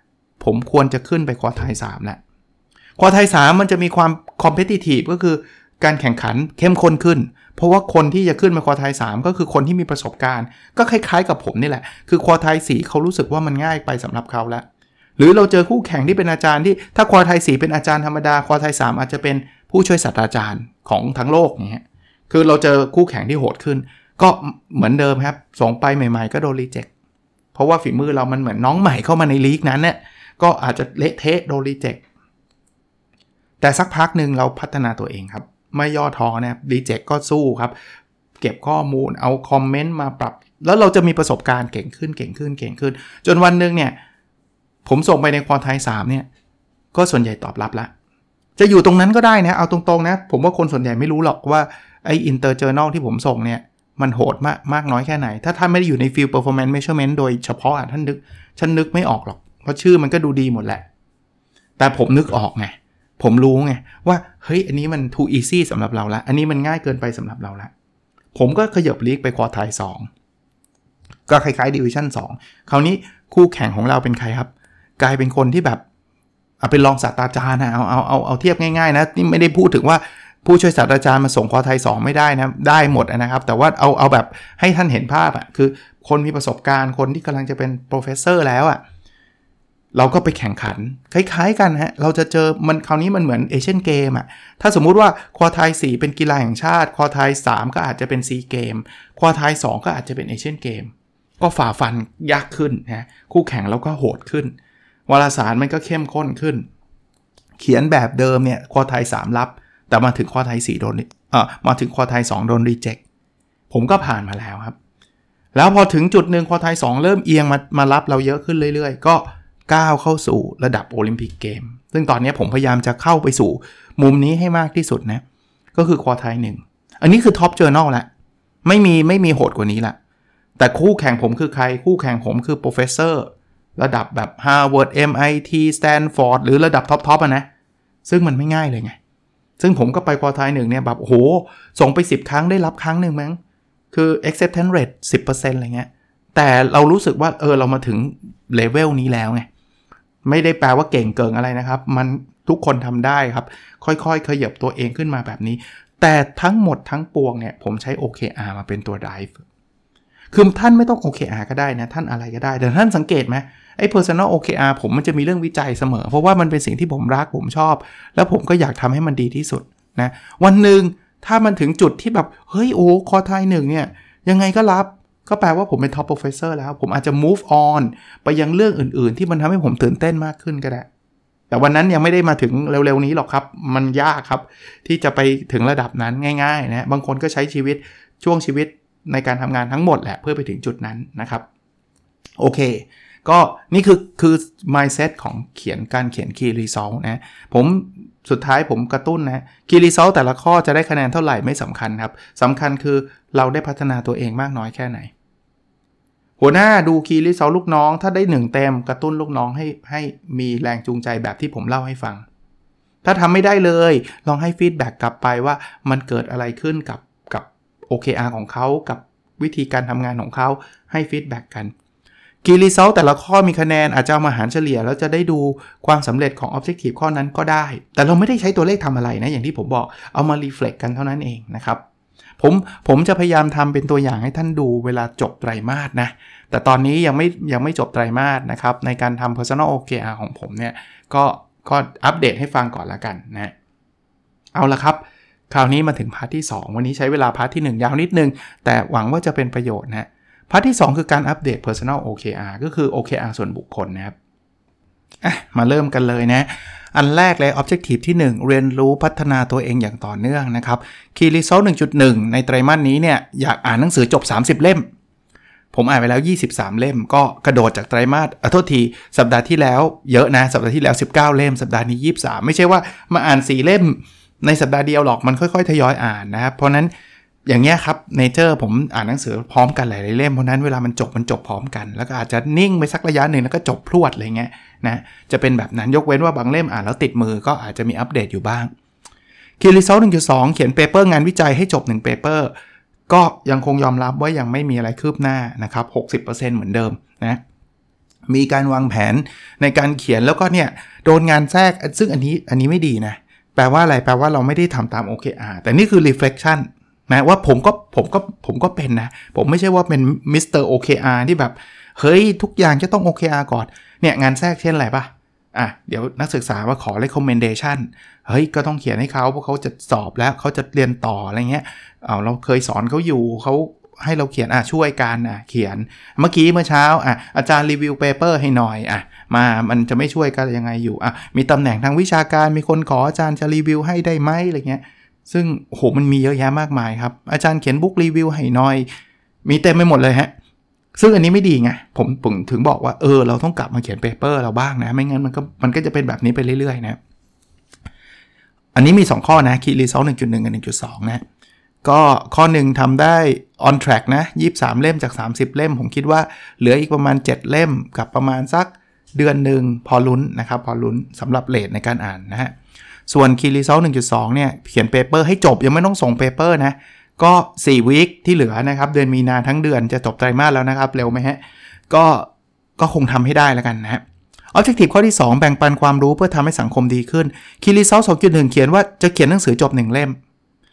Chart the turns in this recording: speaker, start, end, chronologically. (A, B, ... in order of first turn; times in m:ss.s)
0:00.4-0:02.2 A
0:03.0-0:14.6 A
0:15.2-0:26.9 A
0:27.5-0:32.0 A
0:33.6-0:37.7 A
0:38.4-0:44.0 A
0:44.8-0:46.3 A
0:46.9-0:47.9 A
0:48.6-1:00.8 A
1:01.8-1:07.7 A
1:08.3-1:10.1 A
1:11.3-1:15.8 A
1:16.6-1:28.8 A
1:29.9-1:44.5 A
1:45.1-1:46.7 A
1:47.6-1:53.0 A
1:53.7-1:54.7 A
1:55.5-2:05.2 A
2:05.7-2:08.1 A
2:08.6-2:10.0 A
2:10.6-2:17.5 A
2:18.0-2:19.0 A
2:19.6-2:23.4 A
2:23.9-2:29.5 A
2:30.2-2:39.4 A
2:40.3-3:00.8 A
3:01.5-3:11.4 A
3:12.4-3:25.1 A
3:26.4-3:32.2 A
3:33.0-3:41.7 A
3:42.4-3:51.8 A
3:52.4-4:03.5 A
4:04.5-4:14.1 A
4:15.2-4:24.9 A
4:25.7-4:36.9 A
4:37.5-4:48.7 A
4:49.6-4:52.5 A
4:53.1-4:57.4 A
4:58.3-5:38.9 A
5:39.4-5:40.3 A
5:40.9-5:47.0 A
5:48.7-5:51.2 A
5:51.8-6:02.5 A
6:03.1-6:20.2 A